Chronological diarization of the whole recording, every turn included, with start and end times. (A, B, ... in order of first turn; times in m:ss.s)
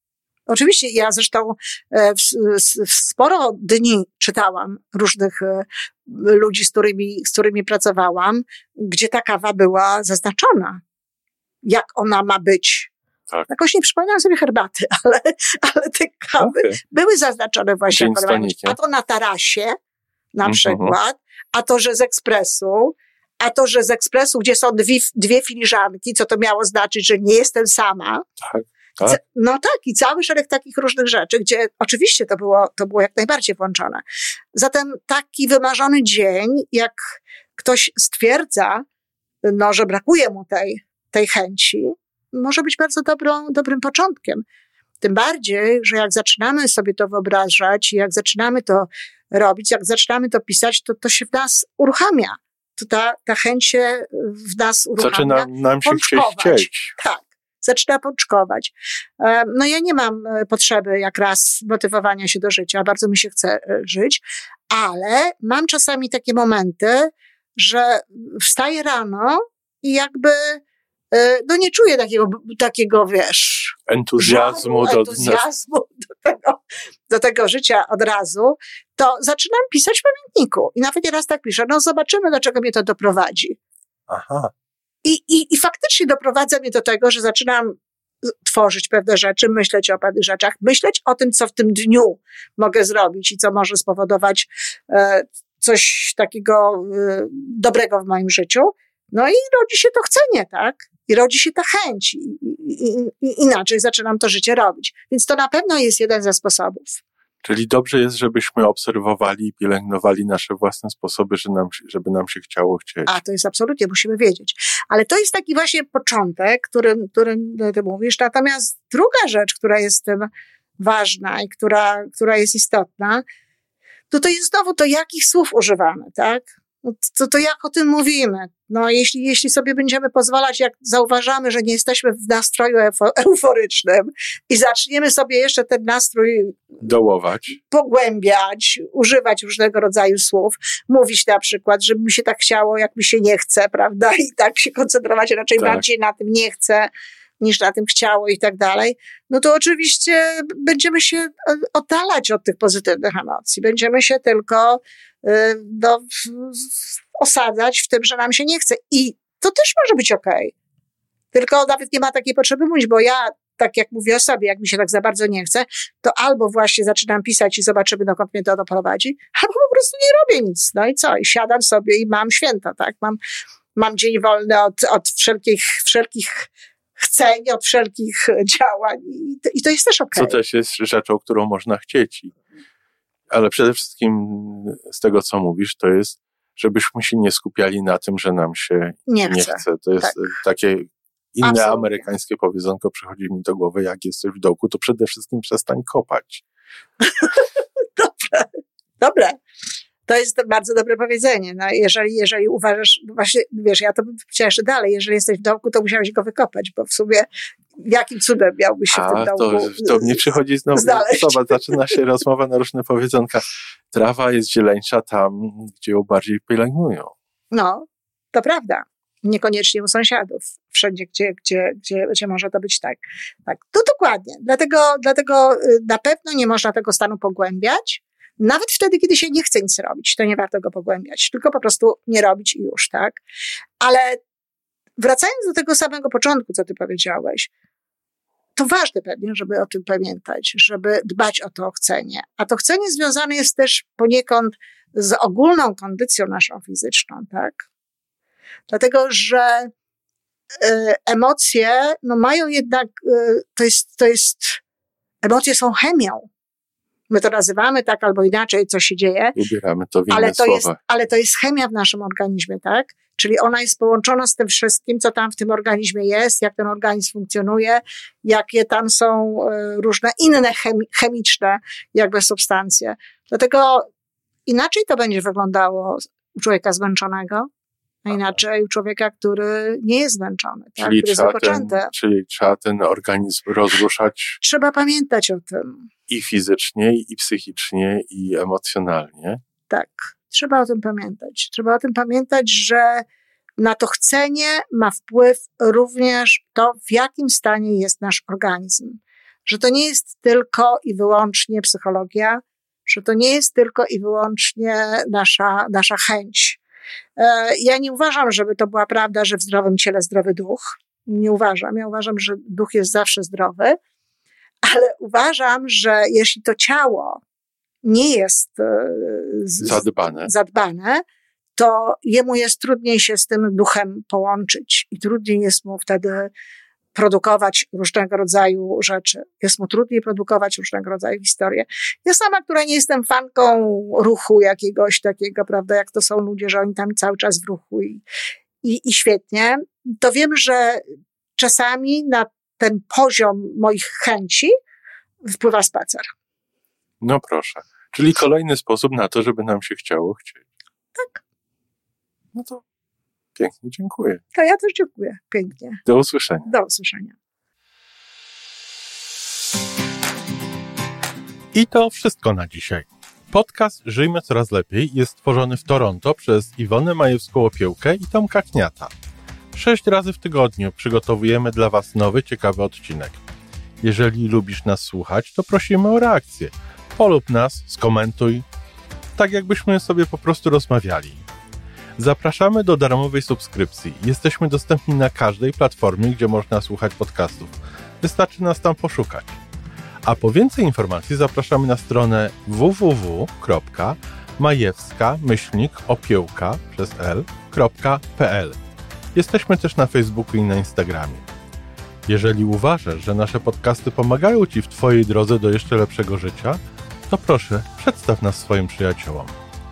0:00.5-0:10.8 A
0:11.6-0:12.9 A
0:13.5-0:19.8 A
0:16.4-0:16.8 B
0:17.9-0:18.8 B
0:20.3-0:28.2 A
0:20.4-0:21.0 B
0:28.4-0:29.2 B
0:29.0-0:34.0 A
0:34.6-0:38.8 A
0:39.4-0:44.4 A
0:45.0-1:10.6 A
0:55.0-0:56.9 B
1:11.1-1:23.6 A
1:13.9-1:15.4 B
1:24.1-1:24.5 B
1:25.0-1:47.0 A
1:47.4-1:53.1 B
1:53.1-2:00.3 A
2:00.8-2:03.2 A
2:04.1-2:16.6 A
2:16.8-2:17.6 B
2:17.6-2:40.5 A
2:25.6-2:25.8 B
2:41.3-2:53.2 A
2:53.8-3:00.4 A
3:00.1-3:02.3 B
3:03.3-3:16.4 B
3:09.1-3:10.2 A
3:11.4-3:12.1 A
3:17.0-3:19.4 A
3:20.1-3:27.3 A
3:27.8-3:31.9 A
3:28.9-3:37.1 B
3:37.5-3:53.2 A
3:53.8-3:54.2 A
3:55.0-3:57.5 A
3:58.6-4:07.7 A
4:08.7-4:09.7 A
4:10.6-4:14.6 A
4:15.2-4:16.3 A
4:17.1-4:19.4 A
4:19.4-4:20.8 B
4:20.1-4:33.9 A
4:34.5-4:37.5 A
4:38.0-4:41.9 A
4:40.8-4:44.4 B
4:44.4-4:45.9 A
4:46.1-4:49.4 B
4:49.7-4:53.0 A
4:53.6-5:06.6 A
5:07.2-5:13.8 A
5:14.6-5:17.2 A
5:17.8-5:21.0 A
5:19.6-5:20.3 B
5:21.6-5:26.3 A
5:26.9-5:38.0 A
5:38.6-5:40.8 A
5:41.4-5:44.5 A
5:45.3-5:46.1 A
5:47.0-5:50.4 B
5:51.0-5:51.2 A
5:52.3-5:52.6 B
5:53.4-5:54.2 B
5:54.3-5:55.8 A
5:55.8-5:56.5 B
5:56.5-5:57.1 A
6:01.5-6:08.9 B
6:09.5-6:13.2 B
6:13.8-6:18.4 B
6:19.2-6:21.2 B
6:22.0-6:29.4 B
6:30.0-6:38.6 B
6:39.2-6:41.3 B
6:42.1-6:49.4 B